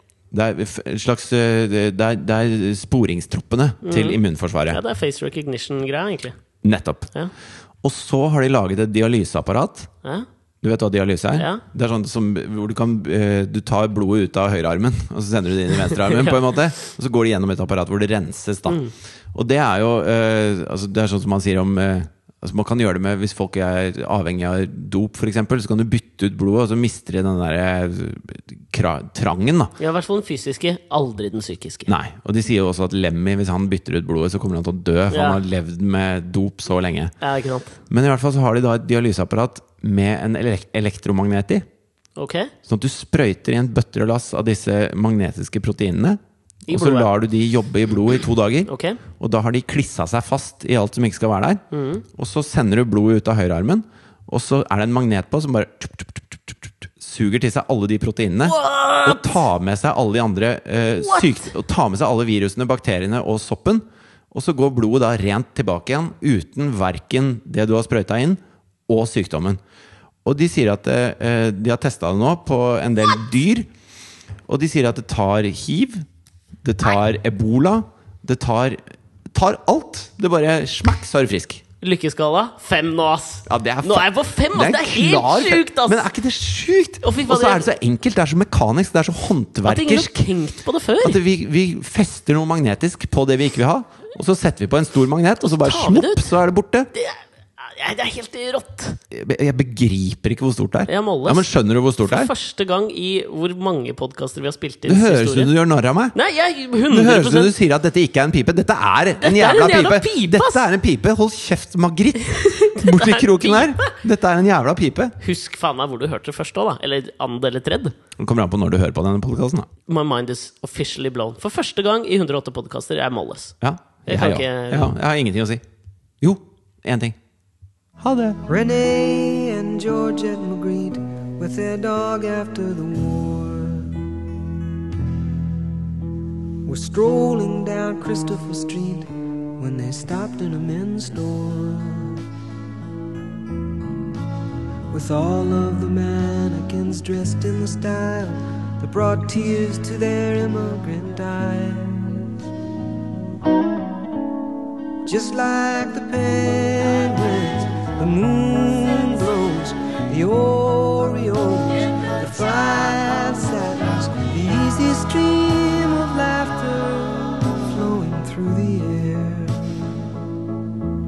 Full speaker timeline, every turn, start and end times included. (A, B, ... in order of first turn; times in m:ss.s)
0:00.3-0:04.8 A
0:03.8-0:06.3 B
0:06.6-0:07.1 A
0:07.8-0:09.9 A
0:10.6-0:18.8 A
0:11.3-0:11.6 B
0:15.9-0:16.4 B
0:18.7-0:18.9 B
0:19.3-0:29.7 A
0:29.8-0:31.9 B
0:31.9-0:37.1 A
0:35.1-0:35.4 B
0:37.2-0:37.8 B
0:37.9-0:41.6 A
0:42.2-0:42.5 B
0:42.6-0:46.2 A
0:46.7-0:47.1 B
0:46.7-1:09.6 A
0:48.7-0:49.0 B
0:51.7-0:52.0 B
0:58.4-0:59.4 B
1:01.0-1:01.5 B
1:10.2-1:13.7 A
1:14.5-1:16.0 A
1:16.6-1:21.6 A
1:21.8-1:26.1 B
1:23.5-1:30.3 A
1:27.0-1:27.6 B
1:29.6-1:31.2 B
1:31.0-1:36.9 A
1:35.4-1:36.3 B
1:36.9-1:39.0 B
1:39.1-1:42.3 A
1:40.9-1:41.5 B
1:42.0-1:45.5 B
1:44.9-1:46.1 A
1:46.1-1:47.5 B
1:46.9-1:55.1 A
1:49.2-1:50.6 B
1:52.2-1:53.9 B
1:55.2-1:57.9 B
1:58.2-1:59.7 A
1:59.9-2:03.5 B
2:03.6-2:05.6 A
2:04.1-2:04.9 B
2:06.2-2:07.2 A
2:08.0-2:08.4 A
2:08.5-2:14.1 C
2:16.6-2:22.2 C
2:24.9-2:32.3 C
2:35.0-2:50.0 C